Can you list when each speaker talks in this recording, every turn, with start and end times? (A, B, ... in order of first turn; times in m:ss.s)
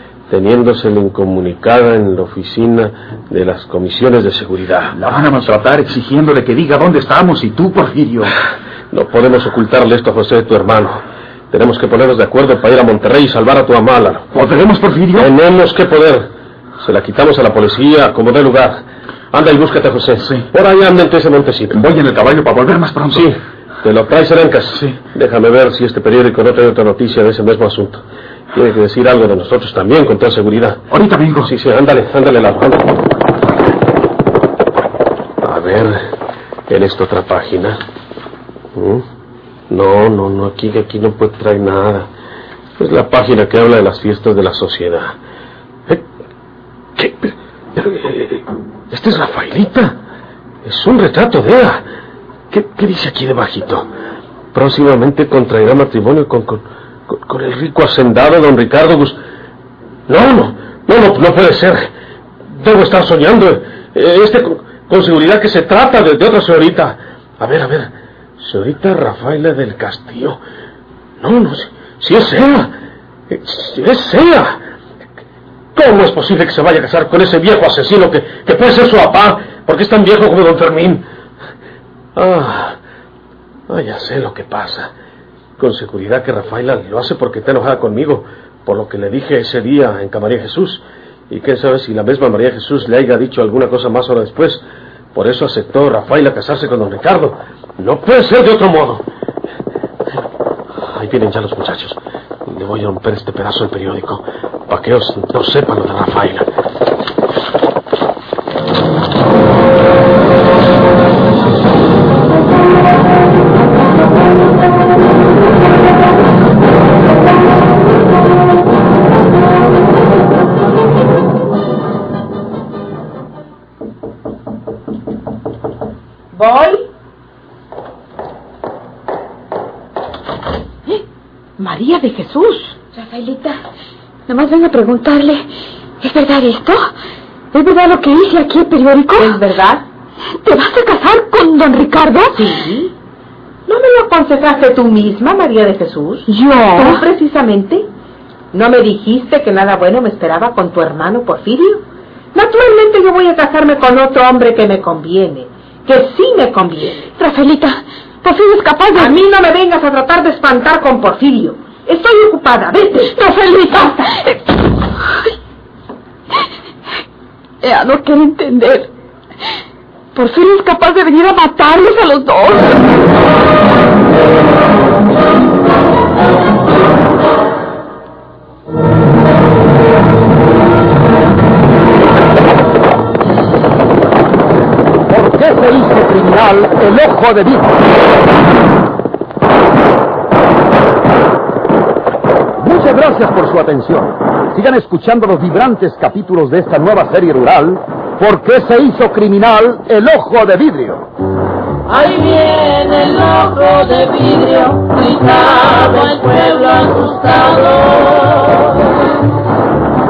0:00.3-0:04.9 A
0:04.9-0:08.3 B
0:08.9-0:11.0 A
0:11.5-0:14.2 A
0:14.3-0:15.3 B
0:15.1-0:16.3 A
0:16.8-0:21.8 A
0:21.7-0:23.3 B
0:23.1-0:28.0 A
0:28.5-0:30.8 A
0:30.9-0:31.5 B
0:31.4-0:33.0 A
0:35.4-0:36.0 A
0:36.7-0:37.8 A
0:38.8-0:39.0 A
0:39.7-0:42.1 A
0:42.8-0:45.1 A
0:47.0-0:50.0 A
0:50.6-0:51.8 A
0:52.5-0:53.8 A
0:54.5-0:59.2 A
1:00.1-1:01.9 A
1:02.5-1:10.4 A
1:11.2-1:12.7 A
1:13.3-1:14.6 A
1:15.7-1:21.0 A
1:22.2-1:22.8 A
1:23.7-1:24.9 A
1:25.6-1:34.6 A
1:35.1-1:39.0 A
1:40.8-1:46.5 A
2:06.3-2:06.8 C
2:11.6-2:12.8 C
2:13.0-2:13.5 D
2:14.3-2:15.4 D
2:16.0-2:16.9 D
2:17.5-2:19.4 D
2:19.2-2:19.8 C
2:20.4-2:22.5 D
2:22.3-2:22.9 C
2:23.7-2:26.2 C
2:26.3-2:27.0 D
2:26.8-2:27.9 C
2:28.5-2:37.1 C
2:37.2-2:39.2 D
2:38.9-2:43.2 C
2:43.2-2:44.4 D
2:47.6-2:48.9 D
2:50.1-2:52.8 D
3:05.1-3:07.7 E
3:12.6-3:21.0 E
3:21.9-3:28.9 F